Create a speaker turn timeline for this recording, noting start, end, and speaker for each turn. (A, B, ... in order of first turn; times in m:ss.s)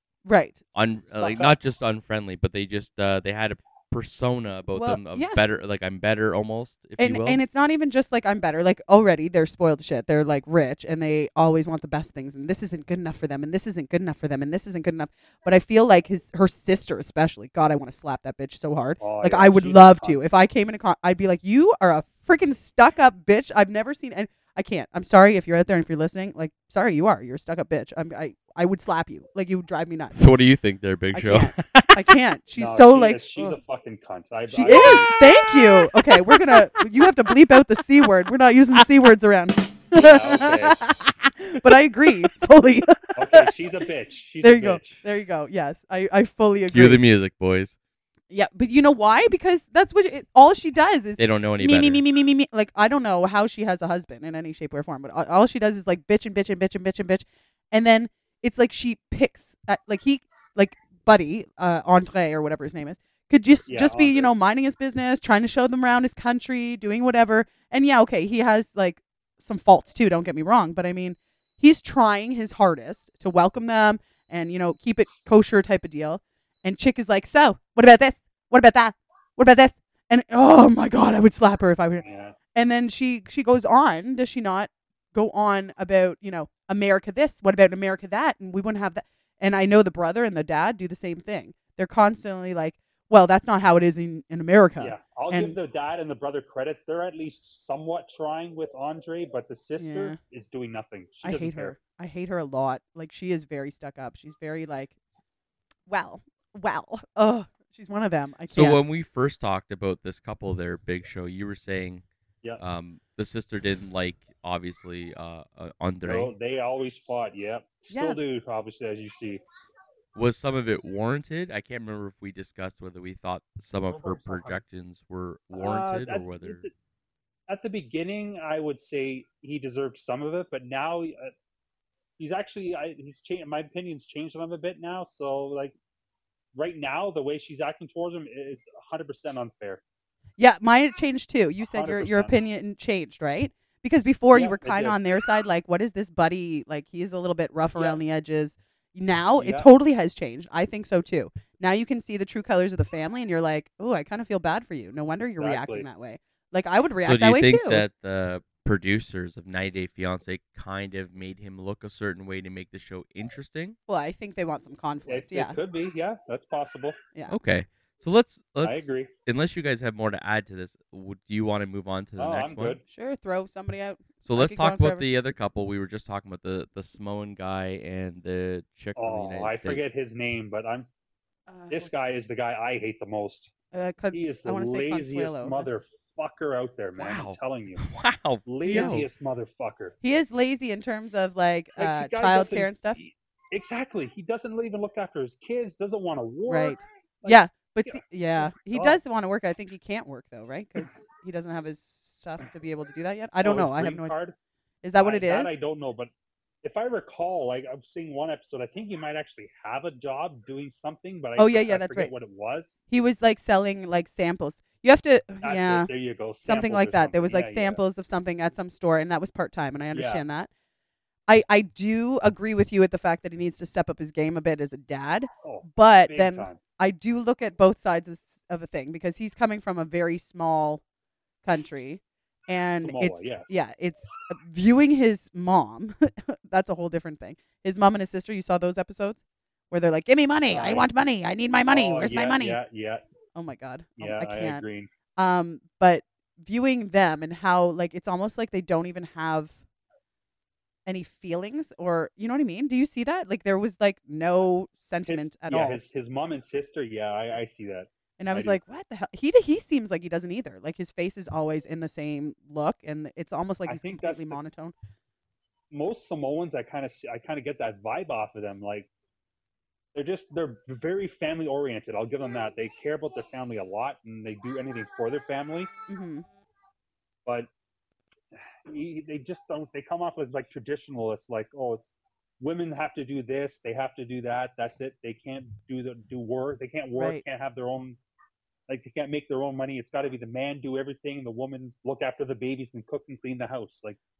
0:00.2-0:00.6 A
0:00.8-0:07.4 B
0:01.1-0:01.5 C
0:04.8-0:05.4 A
0:07.0-0:30.2 A
0:19.0-0:20.2 C
0:30.1-0:32.1 B
0:31.1-0:33.6 A
0:32.6-0:35.1 C
0:34.5-0:43.5 A
0:39.9-0:40.9 C
0:43.2-0:45.0 C
0:44.4-0:47.0 A
0:46.7-0:47.8 B
0:48.3-1:35.6 A
0:51.2-0:52.0 B
1:03.7-1:04.3 C
1:22.0-1:22.4 C
1:34.8-1:41.8 C
1:39.8-1:40.2 A
1:41.2-1:44.9 A
1:45.9-1:48.8 A
1:48.5-1:52.0 B
1:52.6-1:56.3 B
1:56.0-1:59.4 C
1:57.9-1:58.2 A
2:00.2-2:06.7 B
2:03.9-2:04.6 C
2:05.5-2:06.7 C
2:07.5-2:11.3 C
2:12.2-2:15.8 C
2:16.6-2:19.8 C
2:20.4-2:37.8 A
2:21.7-2:22.3 C
2:24.3-2:25.0 C
2:29.4-2:29.7 C
2:35.3-2:35.9 C
2:37.0-2:43.8 B
2:43.9-2:45.6 A
2:45.1-2:47.0 C
2:47.3-2:52.8 B
2:48.6-2:49.1 C
2:52.2-2:52.8 C
2:52.9-2:55.1 A
2:54.2-2:59.8 B
2:59.0-3:00.9 C
3:01.5-3:01.9 A
3:01.7-3:03.5 C
3:03.7-3:05.7 A
3:04.1-3:07.9 C
3:07.0-3:09.1 B
3:08.5-3:10.0 C
3:08.6-3:09.0 A
3:10.0-3:13.0 A
3:11.8-3:19.0 C
3:16.5-3:24.1 A
3:23.4-3:24.4 C
3:24.8-3:25.5 A
3:25.0-3:26.1 C
3:26.6-3:32.8 C
3:31.4-3:32.1 A
3:32.9-3:35.9 A
3:35.4-3:37.8 C
3:36.4-3:40.5 A
3:39.9-3:40.2 C
3:41.3-3:50.8 A
3:45.4-3:46.6 C
3:51.4-4:02.6 A
3:52.8-3:53.6 C
4:00.5-4:00.9 C
4:01.7-4:03.0 C
4:03.4-4:04.6 A
4:04.0-4:04.9 C
4:05.2-4:09.5 A
4:10.9-4:15.8 A
4:15.1-4:18.6 C
4:18.2-4:24.7 A
4:23.7-4:24.4 C
4:25.7-4:28.9 C
4:30.0-4:35.7 C
4:35.9-4:36.3 A
4:38.7-4:48.0 C
4:47.0-4:47.2 A
4:48.7-4:54.0 C